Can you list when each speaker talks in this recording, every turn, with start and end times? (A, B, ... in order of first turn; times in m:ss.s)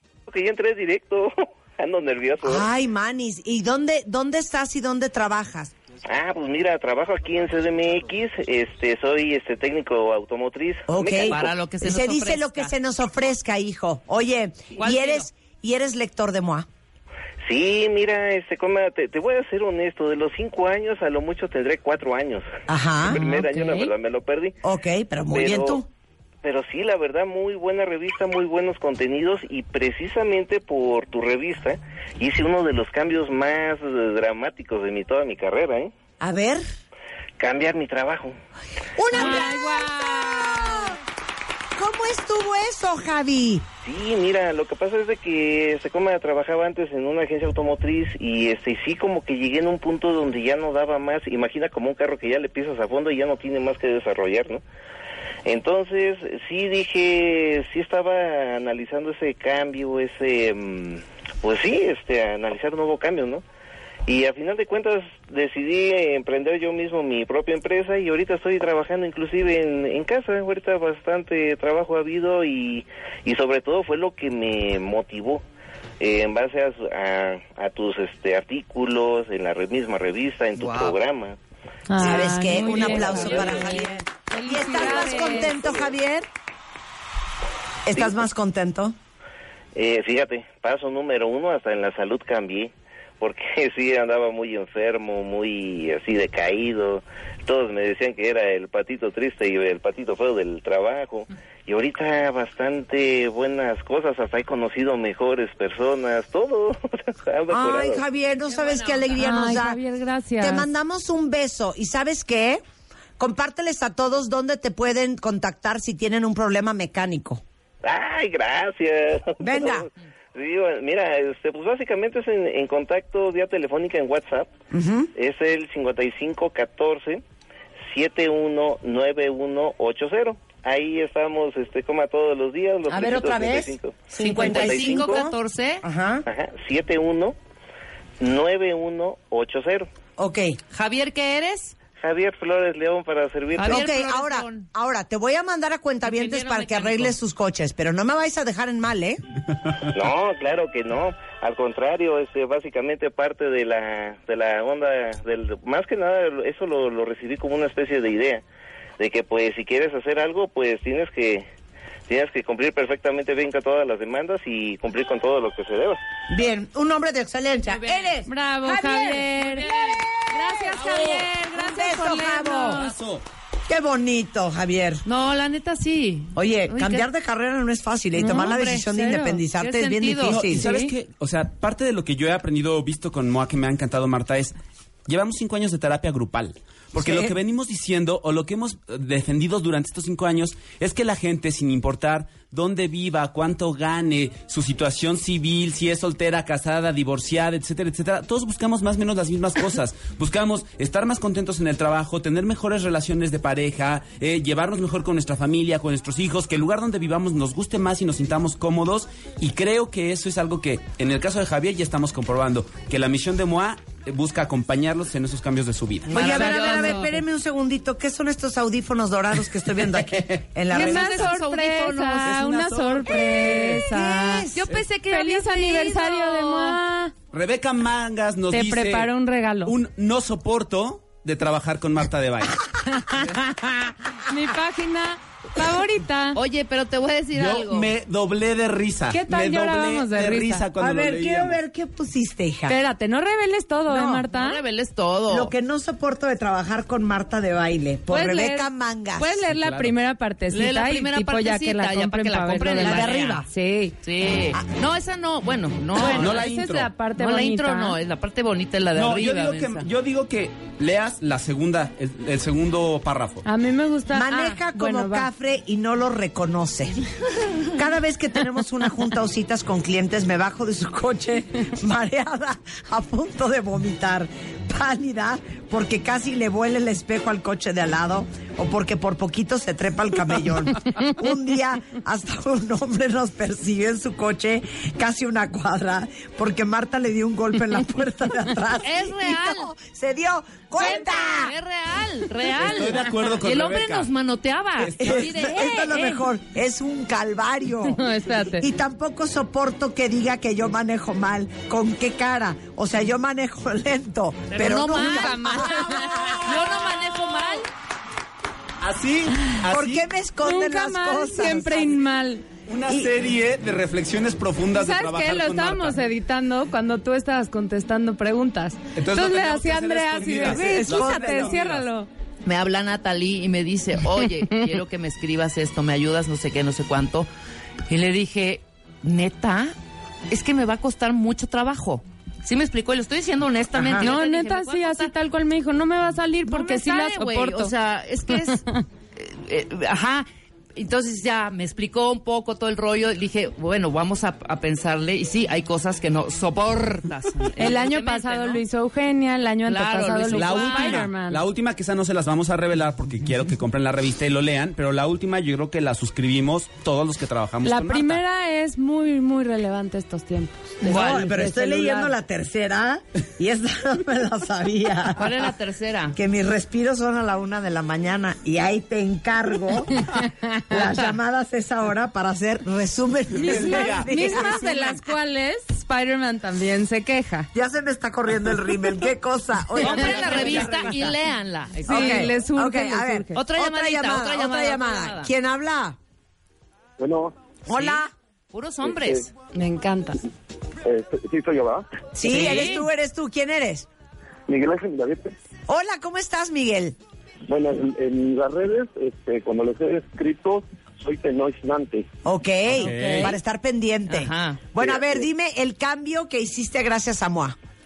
0:00.3-0:02.7 A
0:02.4-0:05.7 B
0:06.1-0:11.4 A
0:10.9-0:16.7 B
0:11.2-0:12.7 C
0:14.8-0:15.3 C
0:17.4-0:22.5 A
0:22.7-0:23.2 B
0:23.0-0:24.6 A
0:23.1-0:23.9 D
0:24.6-0:25.9 B
0:25.3-0:25.8 A
0:26.4-0:35.9 A
0:36.2-0:36.6 B
0:37.4-0:38.4 A
0:39.0-0:41.0 B
0:39.2-0:40.8 D
0:41.8-0:43.6 B
0:43.8-0:54.6 A
0:55.5-1:03.4 A
1:04.1-1:15.4 A
1:16.0-1:21.4 A
1:21.9-1:25.6 D
1:22.0-1:26.3 B
1:24.6-1:25.9 A
1:27.9-1:29.0 B
1:28.0-1:28.2 A
1:29.8-1:48.0 A
1:47.5-1:49.8 B
1:48.6-1:49.1 C
1:49.2-1:50.7 D
1:50.4-1:52.6 B
1:53.2-1:57.4 B
1:57.8-2:04.5 A
1:59.4-1:59.9 B
2:04.7-2:05.1 B
2:05.2-2:07.2 A
2:07.9-2:15.2 A
2:12.9-2:16.2 B
2:14.2-2:15.8 C
2:16.3-2:17.4 A
2:18.2-2:19.9 A
2:20.2-2:20.6 B
2:20.7-2:21.8 C
2:22.0-2:23.9 A
2:23.6-2:24.7 C
2:23.6-2:29.2 B
2:26.1-2:27.2 C
2:29.9-2:38.4 A
2:39.0-2:41.5 A
2:42.1-2:46.0 A
2:46.3-2:49.3 B
2:48.3-2:49.7 D
2:49.4-2:50.0 E
2:50.3-2:52.9 D
2:50.6-2:52.8 B
2:50.8-2:51.2 E
2:52.7-2:53.2 E
2:53.7-2:55.0 B
2:55.1-2:57.1 C
2:56.4-3:00.7 B
2:58.2-2:59.3 D
2:58.3-3:00.8 C
3:00.3-3:04.6 E
3:05.1-3:36.6 E
3:07.0-3:07.4 B
3:36.1-3:37.1 C
3:36.1-3:41.4 B
3:36.4-3:36.9 D
3:40.7-3:42.6 C
3:40.7-3:44.5 D
3:42.3-3:43.1 E
3:43.1-3:44.7 B
3:44.5-3:46.8 C
3:45.1-3:47.1 D
3:47.3-3:49.1 E
3:48.5-3:49.7 D
3:49.6-3:52.8 E
3:52.9-3:56.4 D
3:56.4-3:57.9 C
3:57.4-4:01.6 E
3:59.1-4:00.7 D
4:00.8-4:02.8 B
4:02.7-4:04.6 D
4:03.9-4:04.2 B
4:04.3-4:05.5 C
4:05.3-4:09.4 B
4:08.1-4:14.0 D
4:09.4-4:10.0 E
4:10.5-4:13.4 C
4:12.8-4:13.5 B
4:14.0-4:16.5 C
4:16.0-4:18.0 D
4:16.0-4:16.9 E
4:17.2-4:19.9 C
4:19.0-4:23.4 E
4:23.4-4:25.3 D
4:24.1-4:27.0 B
4:27.7-4:51.6 B
4:48.8-4:49.7 C
4:50.8-4:56.2 C
4:52.6-4:54.1 E
4:54.8-4:55.3 E
4:55.0-4:58.0 B
4:57.9-4:58.6 D
4:58.5-5:06.6 B
5:04.5-5:07.7 C
5:04.6-5:06.4 D
5:08.8-5:10.0 E
5:09.6-5:12.0 B
5:10.4-5:12.4 D
5:12.7-5:16.0 E
5:12.9-5:13.1 B
5:14.7-5:22.1 D
5:19.0-5:21.8 E
5:20.4-5:21.6 B
5:22.4-5:27.3 C
5:27.9-5:29.7 C
5:30.3-5:35.1 C
5:33.7-5:34.1 B
5:34.0-5:37.7 D
5:36.5-5:38.6 C
5:38.5-5:38.8 D
5:39.2-5:48.6 C
5:47.6-5:51.4 D
5:49.7-5:51.1 C
5:50.3-5:58.2 E
5:57.6-6:02.1 D
6:00.8-6:05.5 B
6:00.9-6:01.2 C
6:05.2-6:06.2 C
6:06.1-6:10.1 B
6:10.6-6:15.0 B
6:13.4-6:17.5 D
6:13.4-6:14.1 E
6:17.5-6:21.2 B
6:19.8-6:22.3 C
6:21.9-6:23.4 D
6:21.9-6:26.0 B
6:23.4-6:25.3 C
6:27.0-6:27.4 F
6:27.7-6:28.1 B
6:27.7-6:29.3 C
6:28.8-6:29.3 F
6:29.5-6:30.2 D
6:30.8-6:32.0 F
6:32.2-6:33.9 B
6:32.2-6:32.8 C
6:34.5-6:35.4 F
6:35.7-6:37.0 B
6:37.5-6:42.1 F
6:42.2-6:47.6 B
6:42.8-6:43.3 E
6:42.8-6:43.4 C
6:44.1-6:44.6 C
6:44.8-6:45.2 F